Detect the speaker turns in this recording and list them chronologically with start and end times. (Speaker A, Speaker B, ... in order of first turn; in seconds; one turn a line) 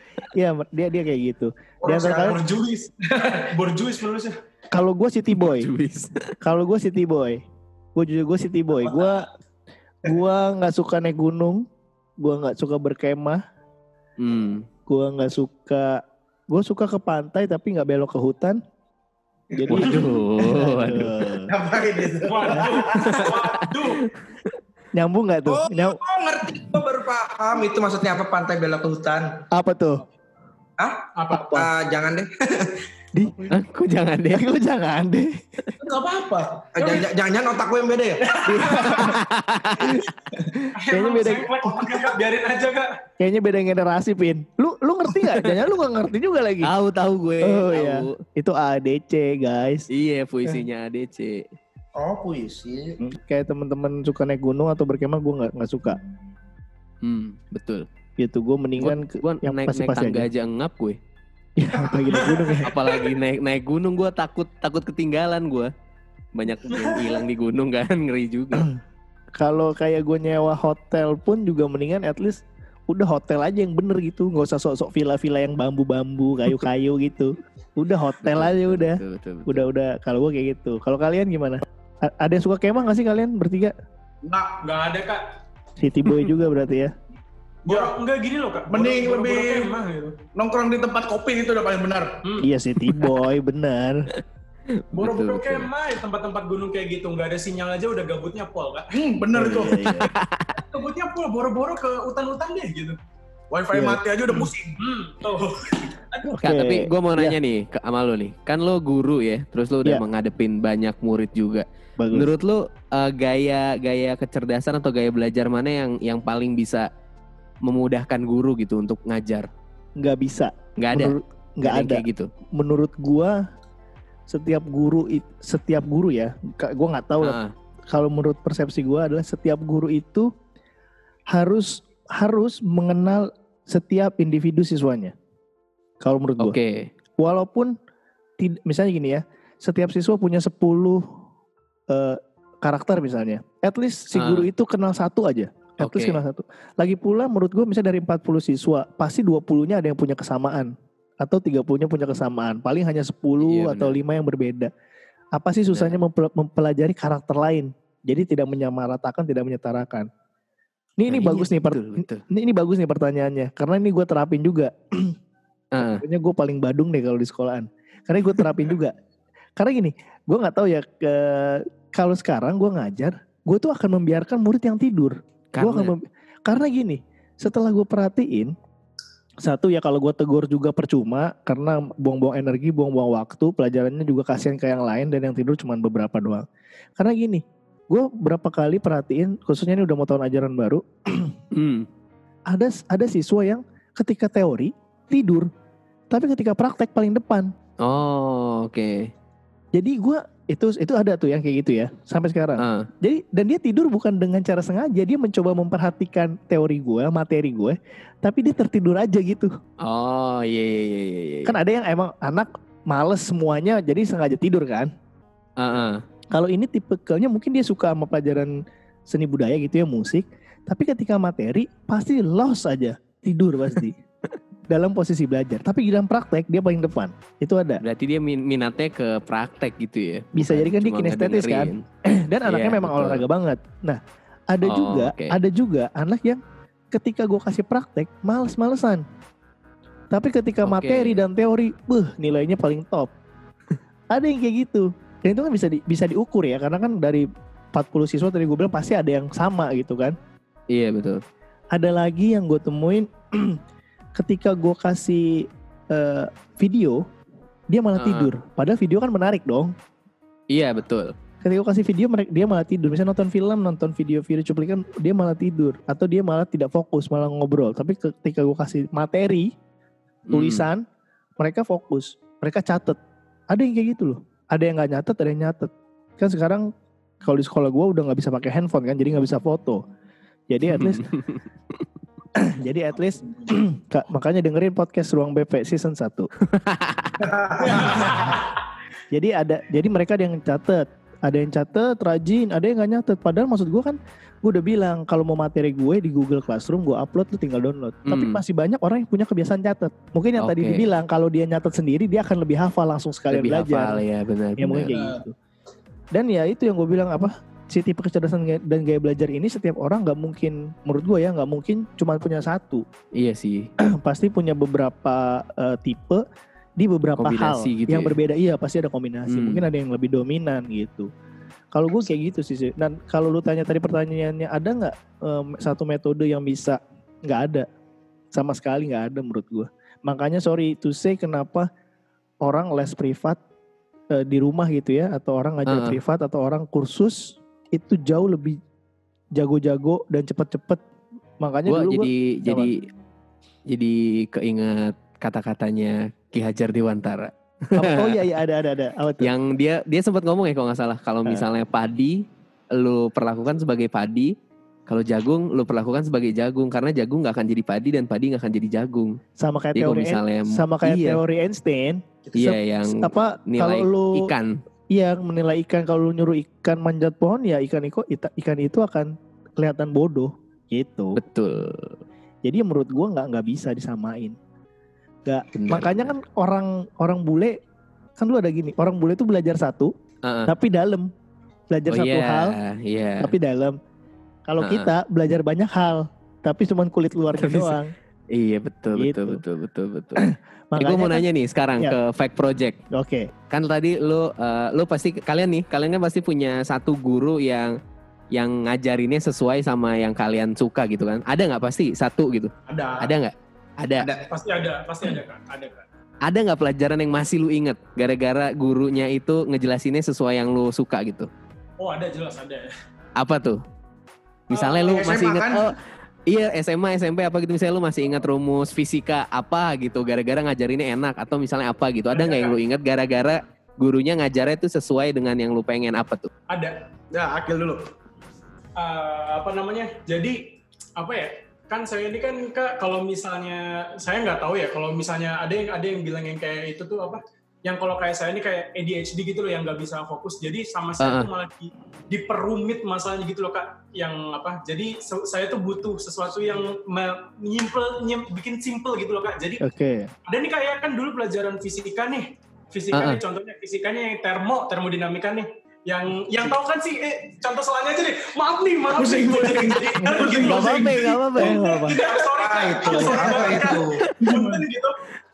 Speaker A: 0.2-2.4
Speaker B: 1.8-2.9
Speaker C: 3.0-4.4
Speaker A: 4.7-5.7
Speaker D: 5.3-6.4
Speaker A: 6.4-7.4
Speaker A: 8.0-9.3
Speaker A: 10.0-11.7
Speaker A: 12.2-13.4
Speaker D: 14.2-14.7
Speaker A: 14.9-18.6
Speaker A: 19.5-21.5
Speaker D: 19.7-21.4
Speaker B: 21.5-23.3
Speaker C: 22.3-24.0
Speaker D: 23.0-24.5
Speaker A: 25.0-26.0
Speaker E: 25.5-29.5
Speaker A: 29.5-30.0
Speaker E: 30.8-32.8
Speaker C: 31.1-31.7
Speaker A: 33.1-33.5
Speaker D: 33.5-34.5
Speaker A: 34.3-35.7
Speaker B: 35.8-37.0
Speaker E: 36.8-38.5
Speaker A: 38.5-39.2
Speaker C: 38.5-39.1
Speaker D: 39.0-40.0
Speaker A: 39.8-41.5
Speaker C: 40.8-43.0
Speaker A: 43.2-46.7
Speaker D: 45.2-45.5
Speaker D: 46.6-48.2
Speaker A: 47.4-49.9
Speaker D: 49.9-51.5
Speaker E: 52.0-53.0
Speaker A: 53.0-56.0
Speaker D: 57.0-57.9
Speaker A: 58.2-60.3
Speaker D: 58.8-61.0
Speaker A: 61.6-62.8
Speaker B: 62.0-62.5
Speaker D: 62.6-65.7
Speaker D: 66.3-68.7
Speaker A: 69.4-83.7
Speaker D: 78.2-79.7
Speaker B: 84.2-84.6
Speaker C: 84.6-85.2
Speaker A: 85.8-86.9
Speaker B: 87.7-87.9
Speaker C: 87.7-90.2
Speaker B: 88.7-89.8
Speaker B: 90.3-92.2
Speaker A: 92.4-94.1
Speaker D: 92.9-93.2
Speaker D: 94.1-95.7
Speaker C: 95.0-99.0
Speaker B: 98.9-99.9
Speaker A: 99.3-100.0
Speaker D: 99.5-100.5
Speaker C: 100.0-103.0
Speaker B: 103.5-104.8
Speaker A: 103.7-104.0
Speaker C: 104.8-106.3
Speaker A: 106.3-107.4
Speaker D: 106.4-116.9
Speaker A: 112.0-112.3
Speaker D: 117.7-119.5
Speaker A: 120.0-123.4
Speaker D: 120.8-122.3
Speaker A: 124.3-127.4
Speaker D: 127.2-127.5
Speaker A: 127.9-130.3
Speaker A: 131.3-135.1
Speaker A: 136.0-136.6
Speaker D: 136.4-136.9
Speaker A: 137.2-137.7
Speaker A: 138.4-141.1
Speaker A: 141.9-154.7
Speaker D: 144.1-144.5
Speaker D: 145.8-146.2
Speaker D: 153.4-154.0
Speaker A: 155.4-160.1
Speaker D: 155.7-156.0
Speaker A: 161.0-165.2
Speaker D: 161.1-162.2
Speaker D: 165.7-166.0
Speaker A: 165.8-168.9
Speaker A: 169.6-178.5
Speaker D: 175.6-175.9
Speaker A: 179.4-186.4
Speaker A: 187.0-191.4
Speaker D: 191.5-191.9
Speaker A: 192.5-195.5
Speaker A: 196.1-197.5
Speaker D: 197.8-199.1
Speaker A: 199.7-209.5
Speaker D: 202.6-202.9
Speaker D: 209.8-211.6
Speaker A: 211.5-214.9
Speaker D: 215.6-216.0
Speaker A: 216.3-218.5
Speaker A: 219.1-224.0
Speaker A: 224.7-227.8
Speaker D: 227.8-231.8
Speaker A: 230.3-234.0
Speaker D: 232.4-233.2
Speaker A: 234.5-236.4
Speaker D: 234.7-235.4
Speaker A: 236.9-239.0
Speaker A: 240.1-243.1
Speaker D: 240.7-241.2
Speaker A: 244.1-250.2
Speaker D: 250.7-251.2
Speaker A: 251.7-253.6
Speaker A: 254.2-257.0
Speaker A: 257.7-259.7
Speaker D: 257.9-258.3
Speaker D: 260.5-261.1
Speaker A: 261.4-269.5
Speaker D: 270.3-270.7
Speaker A: 270.3-270.9
Speaker A: 271.4-273.0
Speaker A: 273.5-276.7
Speaker A: 277.2-279.8
Speaker A: 280.5-281.1
Speaker D: 280.7-281.8
Speaker A: 282.4-286.3
Speaker D: 286.4-287.2
Speaker B: 287.2-288.1
Speaker C: 287.6-288.4
Speaker A: 289.1-304.0
Speaker D: 298.1-298.4
Speaker D: 300.4-300.9
Speaker D: 303.3-304.9
Speaker A: 304.6-305.3
Speaker B: 304.9-305.2
Speaker A: 306.1-312.8
Speaker D: 313.1-313.7
Speaker A: 313.8-316.2
Speaker A: 316.8-321.1
Speaker D: 317.1-318.2
Speaker D: 319.3-319.6
Speaker A: 321.7-327.7
Speaker A: 328.3-331.7
Speaker A: 332.4-333.4
Speaker A: 334.1-338.6
Speaker D: 335.7-336.0
Speaker A: 339.4-340.8
Speaker A: 341.4-342.7
Speaker D: 341.7-342.9
Speaker D: 343.7-348.2
Speaker A: 347.8-349.3
Speaker D: 349.2-354.3
Speaker D: 354.9-359.2
Speaker A: 359.4-364.3
Speaker D: 359.8-361.2
Speaker D: 362.4-364.6
Speaker A: 364.9-371.2
Speaker D: 371.2-372.0
Speaker A: 372.4-374.4
Speaker A: 375.3-377.6
Speaker D: 375.5-376.1
Speaker A: 378.2-379.9
Speaker D: 380.2-380.5
Speaker A: 380.5-381.1
Speaker A: 381.7-382.6
Speaker D: 381.9-383.3
Speaker A: 383.2-383.8
Speaker A: 384.5-387.9
Speaker D: 384.6-384.9
Speaker D: 387.4-387.8
Speaker D: 388.3-390.2
Speaker A: 389.0-389.4
Speaker A: 390.2-391.2
Speaker D: 390.8-392.8
Speaker A: 392.9-393.3
Speaker D: 393.5-397.8
Speaker D: 398.3-404.1
Speaker B: 402.7-403.0
Speaker E: 404.0-404.3
Speaker C: 404.3-405.9
Speaker D: 406.3-411.3
Speaker C: 411.8-412.7
Speaker D: 413.2-413.6
Speaker D: 414.5-426.3
Speaker B: 414.5-415.7
Speaker C: 422.1-422.6
Speaker C: 426.5-426.9
Speaker B: 427.1-427.9
Speaker C: 428.8-430.4
Speaker C: 431.0-449.6
Speaker D: 441.0-441.3
Speaker A: 449.6-450.1
Speaker C: 450.3-465.0
Speaker D: 452.9-453.2
Speaker B: 459.0-460.7
Speaker A: 460.0-462.0
Speaker D: 460.3-461.7
Speaker E: 462.1-464.1
Speaker B: 462.9-463.6
Speaker D: 464.0-464.4